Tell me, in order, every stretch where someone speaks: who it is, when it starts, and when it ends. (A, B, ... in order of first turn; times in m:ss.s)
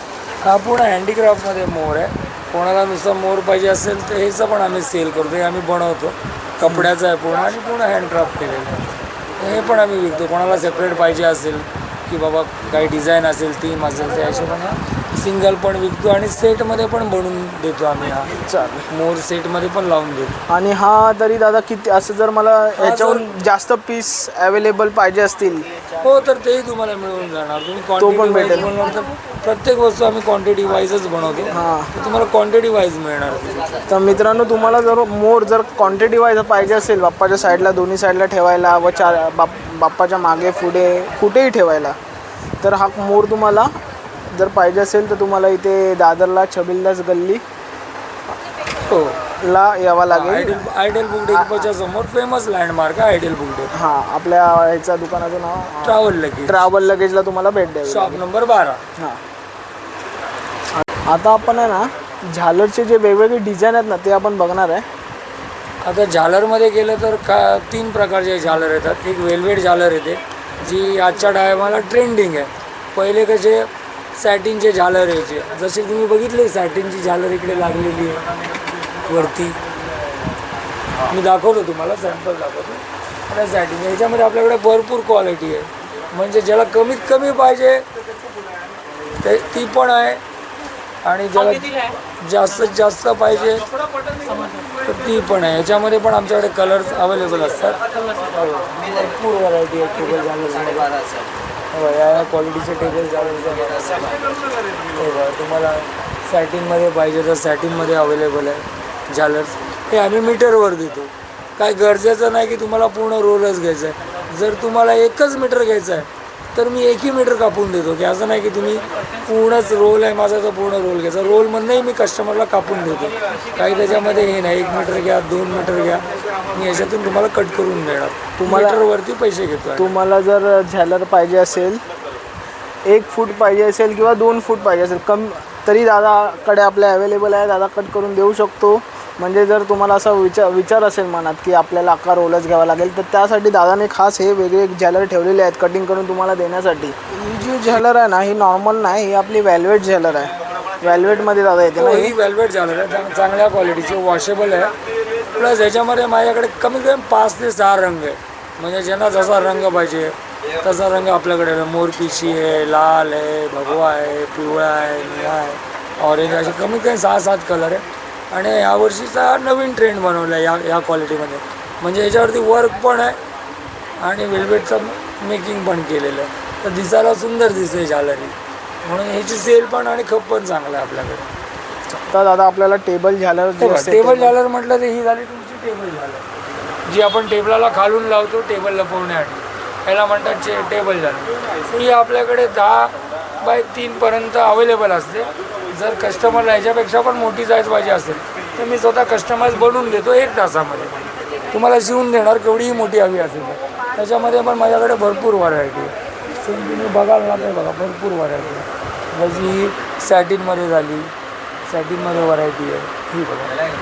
0:00.4-0:18.4 A
0:06.6-0:06.9 B
0:18.5-0:18.9 B
0:18.9-0:20.4 A
0:20.5-0:25.7 B
0:22.8-0:23.2 A
0:26.0-0:33.8 A
0:28.0-0:28.7 B
0:31.5-0:31.9 B
0:33.9-0:42.0 B
0:42.6-0:43.7 B
0:44.3-0:47.4 B
0:48.9-0:49.2 A
0:49.4-0:50.7 B
0:50.1-0:53.7 A
0:51.2-0:51.7 B
0:53.7-0:58.2 B
0:55.8-0:56.7 A
0:57.9-0:58.8 A
1:00.9-1:04.9 B
1:05.8-1:18.2 A
1:19.0-1:19.6 A
1:21.1-1:27.9 A
1:29.2-1:30.2 A
1:31.0-1:33.6 A
1:34.8-1:40.9 A
1:41.7-1:44.2 A
1:45.0-2:10.0 A
2:08.4-2:08.8 B
2:09.8-2:11.8 B
2:12.9-2:32.2 B
2:31.8-2:34.7 A
2:35.3-2:53.2 A
2:54.0-3:01.3 A
3:02.1-3:04.4 B
3:03.6-3:06.2 A
3:06.9-3:31.1 A
3:31.7-3:33.6 A